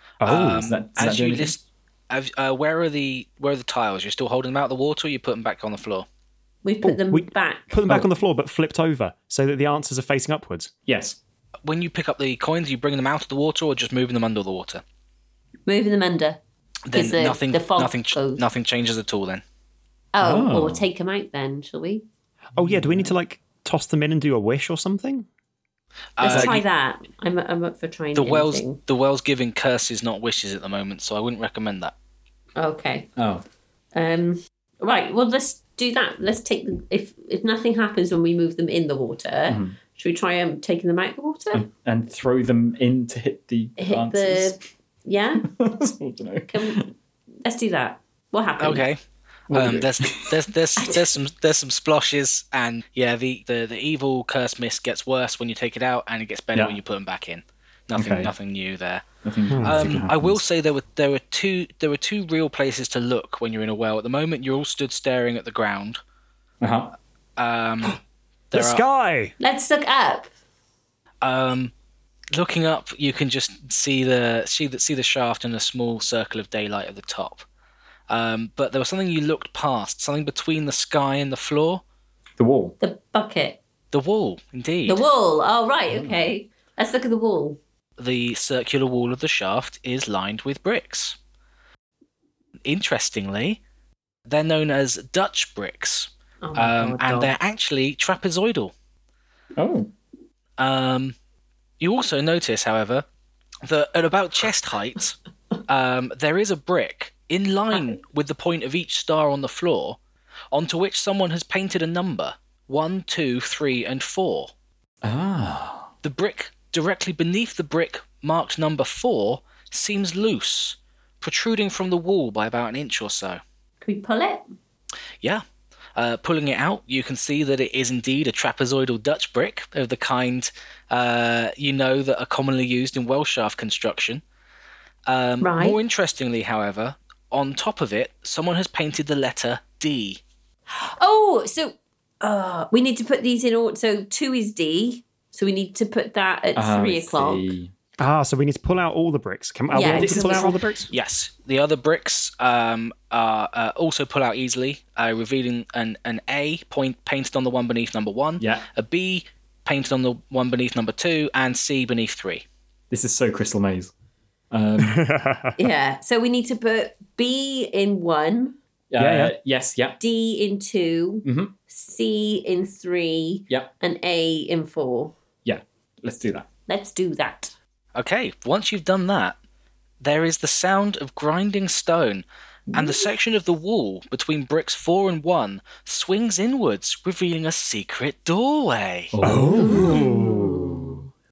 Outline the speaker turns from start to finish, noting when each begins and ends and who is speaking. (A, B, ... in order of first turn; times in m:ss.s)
0:00.2-0:00.7 A
0:00.2-0:06.0 B
0:00.5-0:01.5 C
0:06.6-0:07.7 D
0:06.8-0:10.7 A
0:10.8-0:11.2 C
0:11.6-0:14.8 B
0:15.7-0:16.4 D
0:16.9-0:19.4 B
0:16.9-0:18.4 D
0:20.1-0:22.0 D
0:20.2-0:20.9 C
0:22.6-0:25.3 A
0:22.6-0:23.1 C
0:26.2-0:26.6 B
0:26.2-0:28.8 D
0:26.2-0:26.6 C
0:28.1-0:31.9 B
0:32.6-0:33.1 D
0:33.2-0:33.4 C
0:33.9-0:41.6 D
0:39.5-0:39.8 C
0:41.5-0:44.6 C
0:43.8-0:45.5 D
0:45.4-0:46.9 C
0:46.5-0:46.8 D
0:47.4-0:48.8 D
0:48.6-0:49.0 B
0:49.5-0:50.4 C
0:49.5-1:06.0 B
0:57.9-0:58.3 C
0:59.2-1:00.4 C
0:59.5-1:00.0 A
1:06.6-1:06.9 C
1:07.4-1:08.8 B
1:08.5-1:09.3 A
1:09.4-1:10.3 D
1:11.2-1:11.7 B
1:12.3-1:17.4 B
1:18.1-1:21.8 B
1:22.4-1:22.8 C
1:22.8-1:23.6 D
1:23.9-1:25.0 B
1:24.8-1:27.6 D
1:25.9-1:26.3 C
1:28.0-1:31.2 B
1:32.6-1:33.6 B
1:34.3-1:38.7 B
1:36.4-1:37.3 D
1:39.6-1:39.9 C
1:40.6-1:41.1 B
1:41.8-1:43.0 B
1:43.6-1:50.0 B
1:50.5-1:54.5 B
1:55.0-1:55.9 C
1:56.0-2:03.4 B
2:03.8-2:04.4 D
2:06.0-2:14.2 B
2:15.1-2:20.2 B
2:15.4-2:15.8 D
2:20.7-2:27.5 D
2:26.5-2:27.7 C
2:28.0-2:30.9 A
2:29.7-2:30.5 D
2:29.7-2:30.5 C
2:30.9-2:42.4 B
2:38.4-2:38.6 C
2:42.9-2:43.9 C
2:44.5-2:45.0 C
2:44.8-2:45.6 A
2:45.6-2:48.6 D
2:48.9-2:50.0 C
2:49.0-2:49.3 A
2:50.0-2:55.1 D
2:51.2-2:51.5 C
2:55.4-2:56.5 C
2:56.7-2:57.5 D
2:57.9-2:59.4 B
3:00.0-3:09.1 B
3:09.1-3:11.0 C
3:09.2-3:10.4 A
3:09.4-3:10.9 D